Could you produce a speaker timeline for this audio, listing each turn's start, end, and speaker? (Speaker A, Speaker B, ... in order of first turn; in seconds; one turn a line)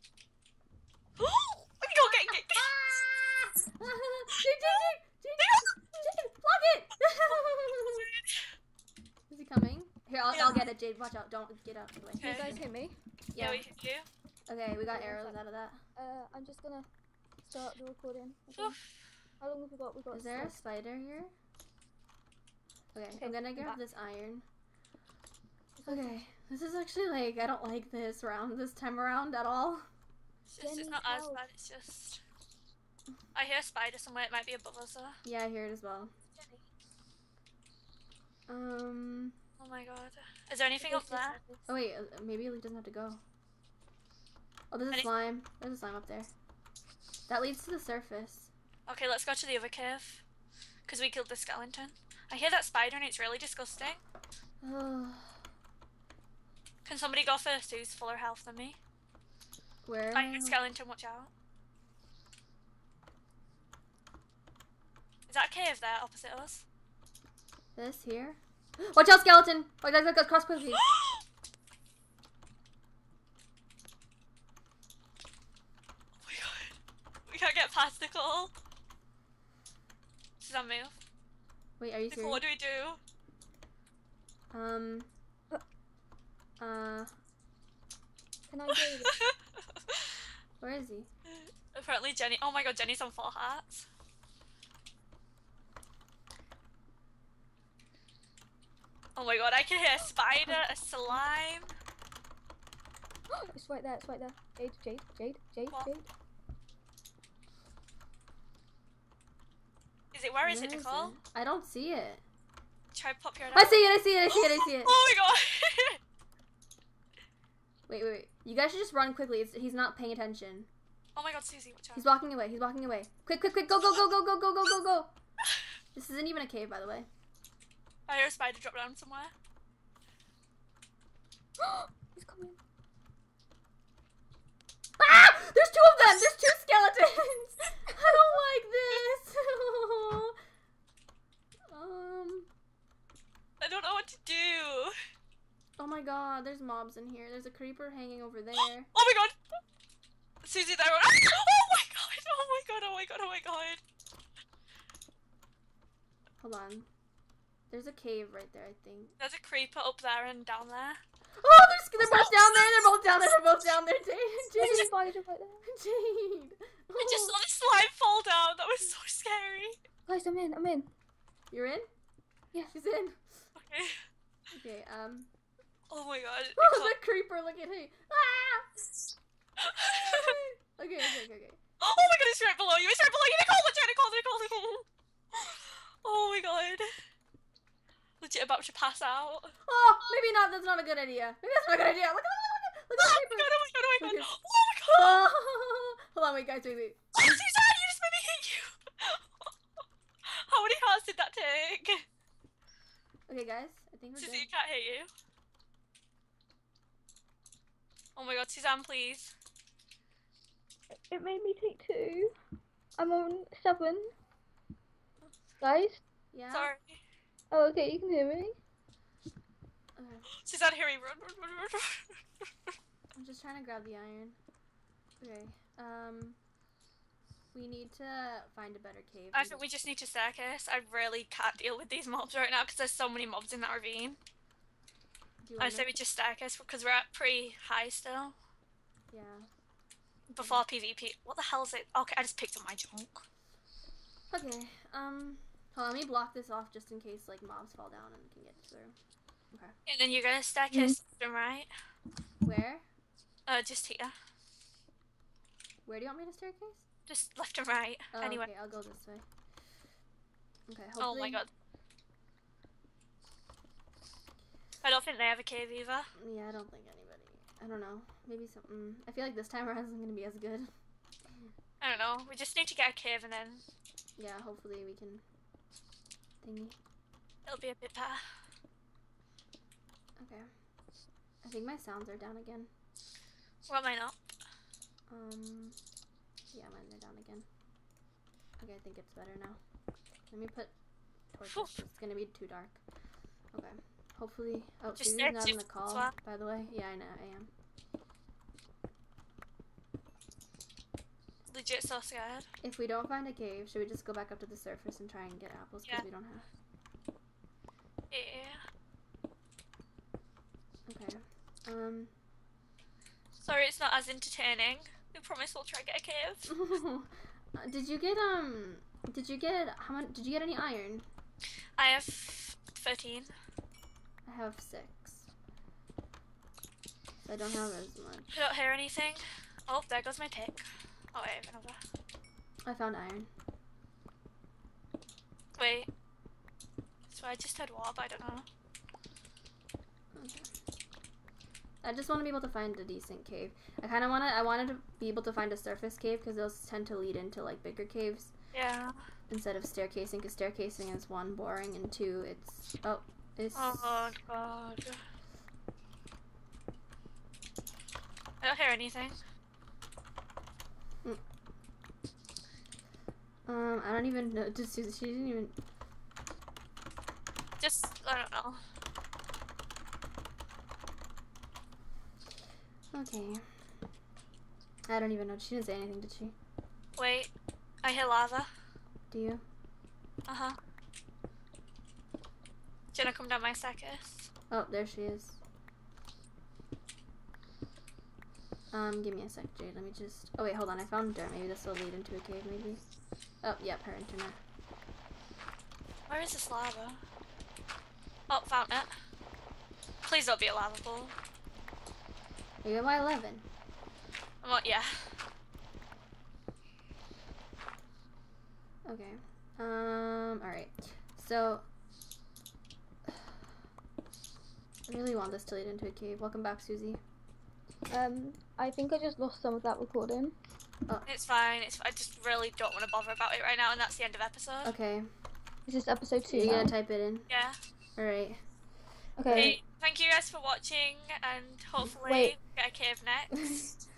Speaker A: 1.2-3.0
Speaker B: 1.9-8.1
Speaker A: 5.4-5.7
Speaker A: 8.0-8.4
Speaker B: 9.3-12.6
Speaker A: 10.3-10.7
Speaker A: 12.2-12.6
Speaker C: 12.2-13.0
Speaker B: 13.3-13.6
Speaker A: 13.4-14.1
Speaker B: 14.5-15.8
Speaker C: 14.9-15.4
Speaker C: 15.9-16.9
Speaker C: 17.4-18.8
Speaker C: 19.4-20.6
Speaker B: 20.1-21.3
Speaker B: 22.9-24.4
Speaker C: 23.1-23.8
Speaker C: 25.8-26.2
Speaker B: 25.9-29.9
Speaker A: 30.5-32.2
Speaker C: 30.6-31.4
Speaker A: 33.3-35.2
Speaker B: 35.2-36.1
Speaker B: 38.5-39.4
Speaker A: 39.6-41.4
Speaker C: 40.8-41.6
Speaker B: 41.7-43.2
Speaker B: 44.7-46.3
Speaker B: 47.3-48.5
Speaker A: 48.9-50.2
Speaker A: 50.9-54.0
Speaker B: 54.6-55.4
Speaker A: 56.8-58.8
Speaker B: 59.9-60.5
Speaker A: 60.1-61.3
Speaker A: 65.3-66.6
Speaker B: 67.8-70.8
Speaker A: 70.7-71.2
Speaker A: 76.2-76.7
Speaker A: 77.3-78.5
Speaker A: 80.4-81.0
Speaker B: 81.8-82.4
Speaker A: 82.1-83.0
Speaker B: 84.5-85.1
Speaker B: 86.6-87.1
Speaker C: 88.5-89.3
Speaker A: 88.7-89.3
Speaker A: 89.9-90.1
Speaker B: 90.6-91.1
Speaker A: 91.3-93.8
Speaker A: 99.2-101.7
Speaker C: 103.3-106.1
Speaker A: 110.1-111.2
Speaker B: 110.4-112.2
Speaker A: 112.9-113.8
Speaker B: 113.5-115.0
Speaker A: 114.3-116.0
Speaker B: 117.9-120.7
Speaker A: 121.2-122.1
Speaker B: 121.9-125.1
Speaker B: 125.9-127.1
Speaker A: 128.1-129.3
Speaker C: 131.6-132.6
Speaker B: 135.0-140.3
Speaker B: 141.7-142.5
Speaker A: 143.6-144.9
Speaker B: 145.8-148.9
Speaker A: 148.9-149.3
Speaker A: 150.4-153.8
Speaker B: 156.4-156.9
Speaker B: 157.7-159.1
Speaker A: 159.2-161.0
Speaker B: 161.4-164.9
Speaker A: 162.0-162.9
Speaker C: 164.6-165.6
Speaker B: 165.6-167.3
Speaker A: 167.0-169.8
Speaker C: 170.1-170.9
Speaker B: 171.5-171.9
Speaker B: 172.7-173.5
Speaker A: 173.6-174.0
Speaker B: 174.5-175.3
Speaker A: 175.9-176.9
Speaker B: 176.6-178.7
Speaker A: 179.6-180.4
Speaker B: 179.8-181.6
Speaker A: 181.8-186.9
Speaker A: 188.2-189.5
Speaker B: 189.7-194.3
Speaker A: 193.0-195.2
Speaker B: 194.9-197.4
Speaker A: 197.2-199.5
Speaker A: 200.2-202.0
Speaker B: 203.3-204.5
Speaker A: 204.2-205.1
Speaker A: 208.2-209.3
Speaker C: 211.1-212.3
Speaker C: 213.0-214.1
Speaker C: 215.6-216.0
Speaker B: 216.3-216.7
Speaker A: 216.5-217.0
Speaker C: 217.5-218.6
Speaker B: 219.9-220.3
Speaker A: 220.4-222.7
Speaker B: 223.1-224.4
Speaker B: 225.2-226.4
Speaker B: 227.5-229.6
Speaker A: 229.3-234.2
Speaker B: 235.4-235.9
Speaker A: 235.6-238.3
Speaker B: 239.1-239.5
Speaker A: 240.3-243.2
Speaker B: 240.4-240.6
Speaker B: 244.3-248.9
Speaker A: 249.9-251.7
Speaker B: 252.4-252.8
Speaker A: 253.5-254.1
Speaker B: 255.8-256.8
Speaker A: 257.1-258.5
Speaker B: 258.1-259.2
Speaker B: 260.7-261.4
Speaker A: 261.0-261.5
Speaker A: 264.8-266.1
Speaker B: 266.2-270.7
Speaker A: 271.8-273.6
Speaker B: 274.2-275.2
Speaker B: 276.4-276.8
Speaker A: 277.4-278.2
Speaker B: 280.2-280.5
Speaker B: 281.4-282.7
Speaker A: 283.6-284.2
Speaker B: 285.1-285.8
Speaker B: 286.5-287.4
Speaker B: 288.6-289.6
Speaker B: 290.3-290.7
Speaker B: 291.3-292.8
Speaker B: 293.5-297.5
Speaker A: 295.0-296.1
Speaker A: 301.5-302.4
Speaker B: 302.6-306.5
Speaker A: 308.1-308.6
Speaker B: 310.9-312.1
Speaker A: 313.4-316.5
Speaker B: 316.5-321.0
Speaker A: 321.8-323.3
Speaker B: 324.2-325.3
Speaker B: 327.2-328.3
Speaker A: 328.3-331.8
Speaker B: 332.6-333.3
Speaker A: 335.6-335.9
Speaker A: 337.1-338.4
Speaker B: 340.1-340.5
Speaker B: 341.8-348.3
Speaker A: 348.5-348.9
Speaker B: 349.3-354.1
Speaker A: 353.5-355.0
Speaker A: 358.4-359.2
Speaker B: 363.5-365.5
Speaker A: 367.6-368.6
Speaker B: 372.9-373.4
Speaker B: 374.9-376.3
Speaker A: 377.0-377.3
Speaker A: 377.8-378.5
Speaker B: 379.1-379.4
Speaker A: 380.3-380.6
Speaker A: 382.9-384.3
Speaker B: 384.5-385.4
Speaker B: 388.7-392.8
Speaker B: 393.4-394.4
Speaker A: 396.1-397.0
Speaker A: 398.3-398.9
Speaker A: 400.0-401.1
Speaker B: 402.6-403.4
Speaker A: 404.4-404.9
Speaker B: 408.9-411.6
Speaker B: 414.9-417.0
Speaker C: 417.9-420.4
Speaker A: 421.1-424.7
Speaker B: 424.6-425.1
Speaker C: 425.6-426.7
Speaker B: 426.3-427.3
Speaker A: 427.3-427.6
Speaker B: 428.0-428.4
Speaker C: 429.2-429.6
Speaker B: 429.3-429.6
Speaker A: 429.3-433.7
Speaker C: 432.0-432.4